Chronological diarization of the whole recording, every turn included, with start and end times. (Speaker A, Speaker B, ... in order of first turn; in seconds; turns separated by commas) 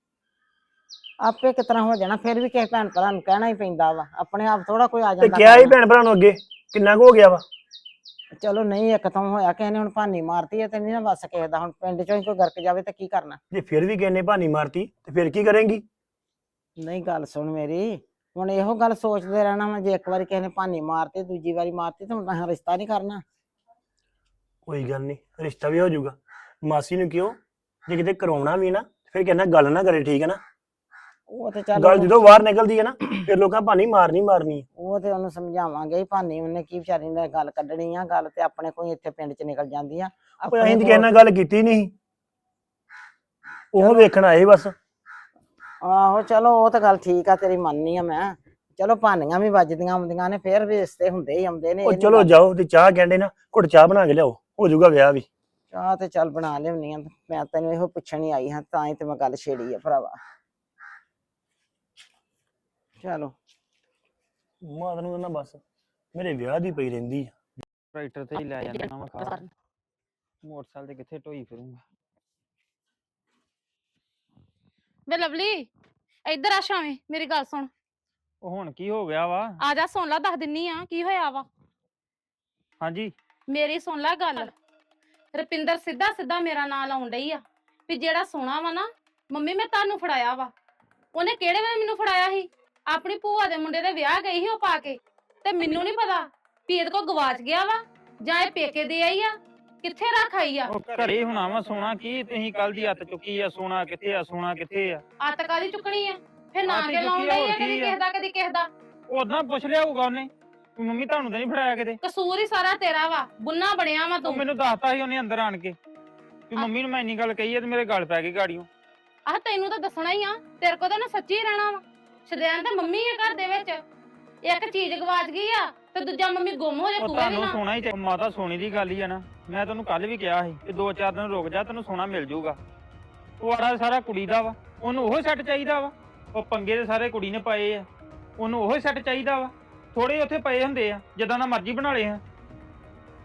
Speaker A: 1.2-5.8, Speaker B: 5.2-7.4, Speaker A: 8.4-13.4, Speaker B: 13.5-15.8, Speaker A: 16.8-23.2, Speaker B: 24.7-30.4, Speaker A: 31.3-32.4, Speaker B: 31.8-34.6, Speaker A: 34.8-41.1, Speaker B: 40.5-41.9, Speaker B: 43.7-44.7, Speaker A: 43.8-44.1, Speaker A: 45.8-52.3, Speaker B: 51.9-55.3, Speaker A: 55.7-60.2, Speaker A: 63.0-63.3, Speaker B: 64.6-65.6, Speaker B: 66.1-67.3, Speaker C: 67.9-69.5, Speaker C: 70.4-71.8, Speaker D: 75.1-75.7, Speaker D: 76.3-77.7, Speaker C: 78.4-79.6, Speaker D: 79.6-81.5, Speaker C: 82.8-83.1, Speaker D: 83.5-84.5, Speaker D: 85.3-90.5, Speaker D: 91.2-99.3, Speaker D: 99.8-100.7, Speaker C: 100.7-105.0, Speaker D: 105.2-108.7, Speaker C: 106.7-108.0, Speaker C: 109.1-112.0, Speaker D: 112.0-114.4, Speaker C: 114.2-115.8, Speaker C: 116.5-118.7, Speaker D: 119.3-123.8, Speaker D: 124.5-127.6, Speaker C: 127.0-132.6, Speaker C: 133.4-137.9, Speaker C: 138.4-142.2